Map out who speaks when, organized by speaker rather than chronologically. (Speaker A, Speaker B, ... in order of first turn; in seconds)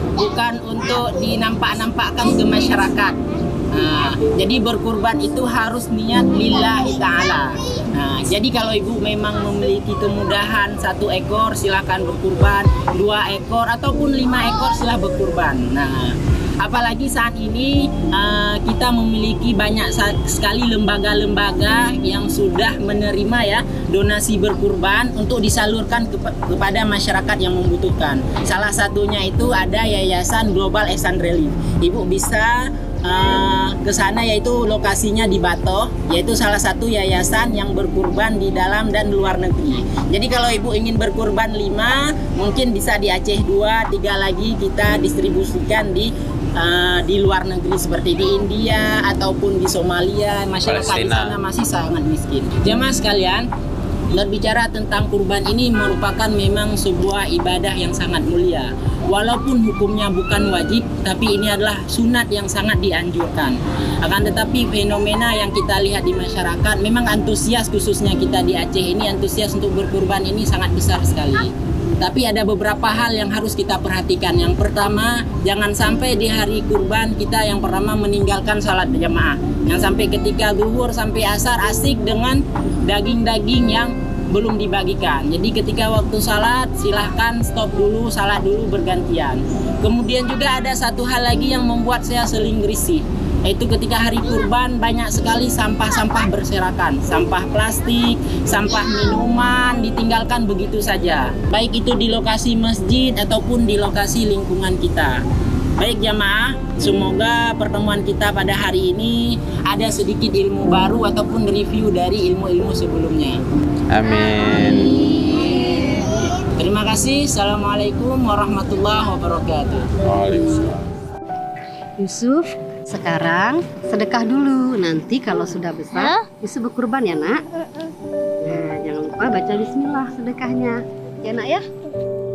Speaker A: 0.2-3.1, 3.7-53.4, 54.1-105.2, 105.8-113.4, 116.5-119.9
Speaker B: 50.7-51.4, 113.9-115.3, 120.0-120.8
Speaker C: 122.0-127.4, 128.4-131.7